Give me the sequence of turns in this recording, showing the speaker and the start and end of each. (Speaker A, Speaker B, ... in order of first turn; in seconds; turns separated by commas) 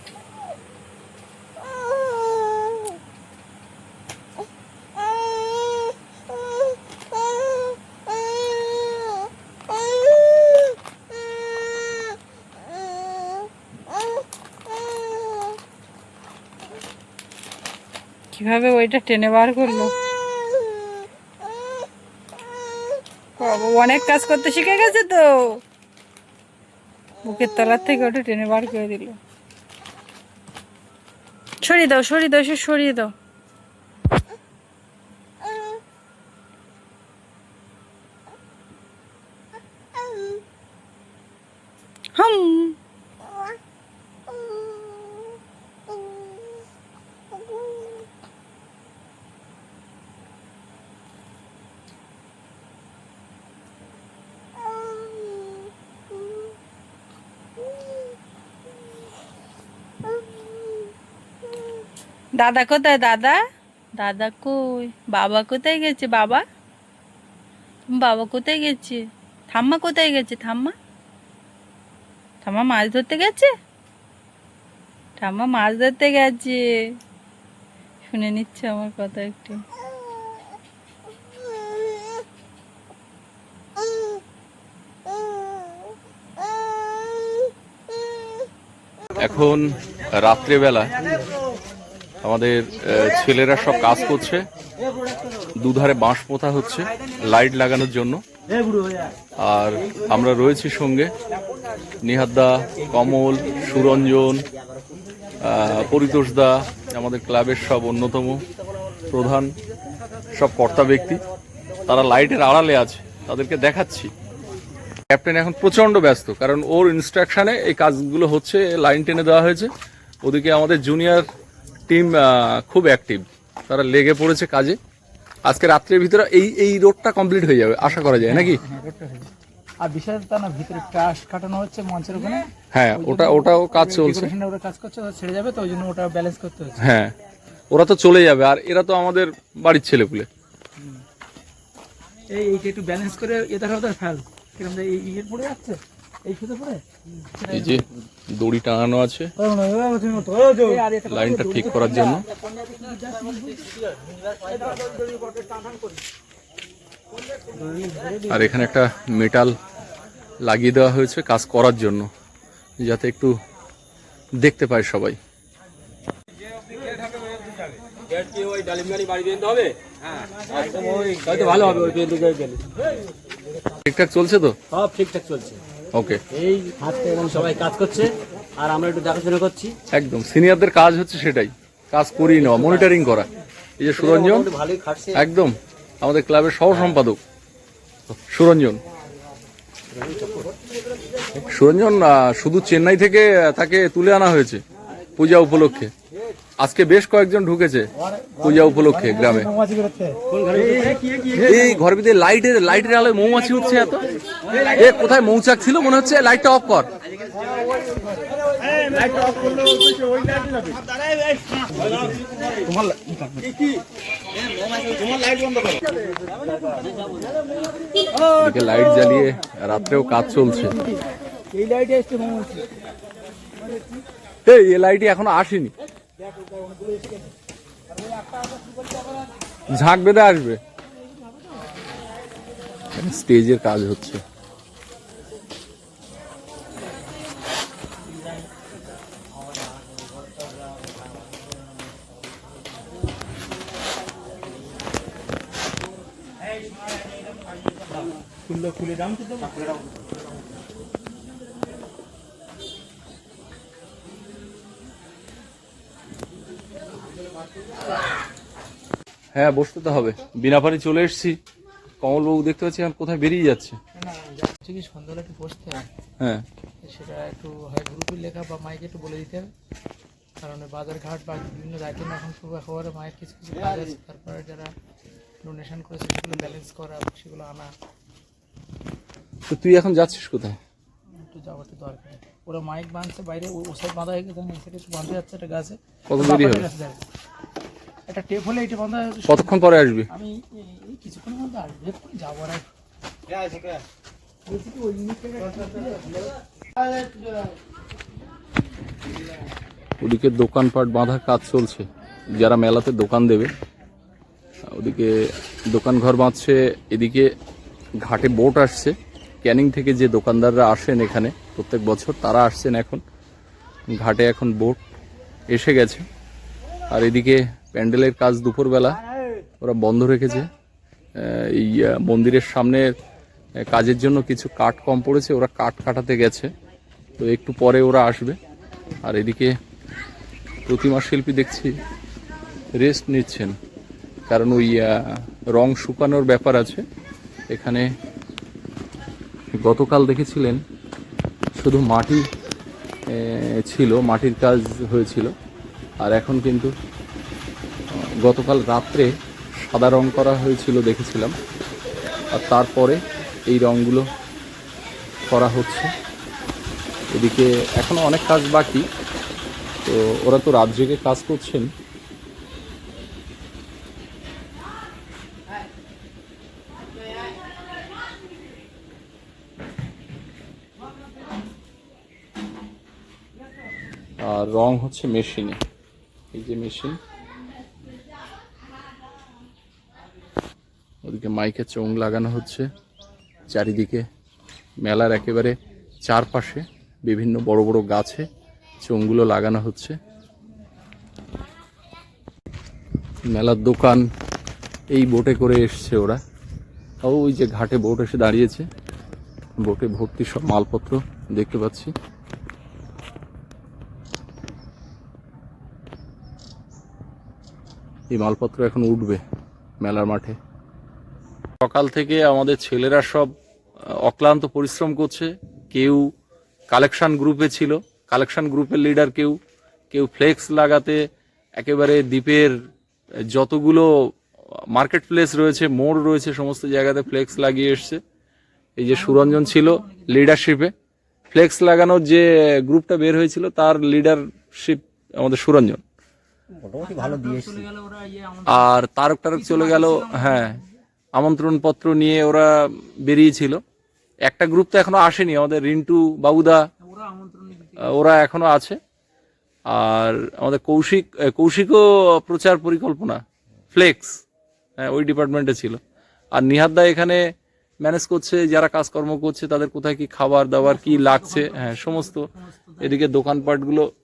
Speaker A: 18.3-19.9, Speaker A: 23.4-25.6, Speaker A: 27.2-29.2, Speaker A: 31.6-33.1, Speaker A: 42.2-42.8, Speaker A: 62.4-63.4, Speaker A: 64.0-66.4, Speaker A: 67.9-69.0, Speaker A: 69.5-70.7, Speaker A: 72.4-73.5, Speaker A: 75.2-76.6, Speaker A: 78.1-79.6, Speaker B: 89.2-90.9, Speaker B: 92.2-94.5, Speaker B: 95.6-98.2, Speaker B: 99.4-101.1, Speaker B: 102.0-104.5, Speaker B: 105.4-108.4, Speaker B: 109.1-109.5, Speaker B: 110.3-111.2, Speaker B: 111.9-114.1, Speaker B: 115.1-119.7, Speaker B: 120.2-121.3, Speaker B: 121.9-124.8, Speaker B: 125.5-128.6, Speaker C: 128.3-129.3, Speaker C: 129.8-136.8, Speaker B: 132.7-134.3, Speaker B: 136.8-137.1, Speaker B: 137.7-140.3, Speaker C: 142.3-147.8, Speaker B: 147.5-149.3, Speaker C: 149.6-156.0, Speaker B: 151.1-152.2, Speaker C: 157.7-158.2, Speaker B: 158.3-159.5, Speaker B: 160.4-162.1, Speaker B: 162.8-163.3, Speaker B: 164.4-165.2, Speaker D: 168.2-169.7, Speaker D: 170.4-172.6, Speaker B: 173.8-174.6, Speaker D: 174.7-175.6, Speaker B: 175.9-176.2, Speaker D: 176.4-179.8, Speaker B: 179.9-183.3, Speaker B: 183.8-184.5, Speaker D: 184.0-185.2, Speaker B: 185.1-187.2, Speaker B: 188.1-188.8, Speaker D: 190.0-190.4, Speaker B: 191.5-194.6, Speaker B: 195.2-195.9, Speaker B: 196.6-199.5, Speaker B: 201.3-204.1, Speaker B: 204.7-206.9, Speaker C: 209.3-209.7, Speaker C: 211.8-213.6, Speaker B: 218.4-220.8, Speaker C: 220.2-221.0, Speaker C: 221.5-222.7, Speaker B: 224.5-225.7, Speaker B: 229.7-230.6, Speaker B: 232.9-234.2, Speaker C: 248.4-249.6, Speaker B: 259.4-261.4, Speaker B: 262.0-263.8, Speaker C: 264.0-265.9, Speaker C: 266.8-269.5, Speaker C: 270.4-274.7, Speaker C: 275.4-277.7, Speaker B: 279.5-280.6, Speaker C: 281.1-287.0, Speaker B: 286.1-286.7, Speaker C: 288.1-289.6, Speaker B: 289.3-290.1, Speaker C: 290.1-292.7, Speaker C: 294.5-296.3, Speaker B: 300.0-303.5, Speaker B: 304.7-305.1, Speaker B: 305.7-307.3, Speaker B: 308.0-313.0, Speaker B: 314.0-314.8, Speaker B: 315.5-316.0, Speaker B: 316.9-319.0, Speaker B: 319.6-320.5, Speaker B: 321.2-322.9, Speaker B: 323.7-326.5, Speaker B: 327.2-328.4, Speaker B: 329.0-329.5, Speaker B: 330.7-331.7, Speaker B: 332.7-333.6, Speaker B: 334.3-336.8, Speaker B: 337.5-337.9, Speaker B: 339.6-340.6, Speaker B: 341.6-342.2, Speaker B: 343.1-345.3, Speaker B: 346.0-346.7, Speaker B: 347.9-349.1, Speaker B: 349.6-351.3, Speaker B: 352.3-354.1, Speaker B: 355.3-355.9, Speaker B: 357.1-358.9, Speaker B: 359.9-361.7, Speaker B: 374.2-375.6, Speaker B: 376.3-377.0, Speaker B: 381.0-382.7, Speaker B: 383.5-384.0, Speaker B: 384.8-388.3, Speaker B: 388.8-389.9, Speaker B: 393.3-394.0, Speaker B: 394.9-396.2, Speaker B: 397.0-398.6, Speaker B: 399.6-401.9, Speaker B: 408.1-409.2, Speaker B: 409.8-410.4, Speaker B: 411.6-413.3, Speaker B: 414.0-416.1, Speaker B: 416.7-419.4, Speaker B: 419.9-421.0, Speaker B: 421.6-422.5, Speaker B: 423.3-423.9, Speaker B: 424.7-428.0, Speaker B: 428.8-430.7, Speaker C: 428.9-430.5, Speaker B: 431.3-435.8, Speaker C: 436.5-438.7, Speaker D: 436.7-437.7, Speaker B: 438.5-440.6, Speaker C: 439.3-440.7, Speaker B: 441.1-443.6, Speaker B: 444.3-446.6, Speaker C: 446.8-447.9, Speaker B: 447.8-448.8, Speaker B: 449.7-453.2, Speaker B: 453.7-454.2, Speaker B: 454.8-455.8, Speaker B: 456.3-457.2, Speaker B: 457.8-462.2, Speaker C: 460.6-463.1, Speaker B: 462.8-463.9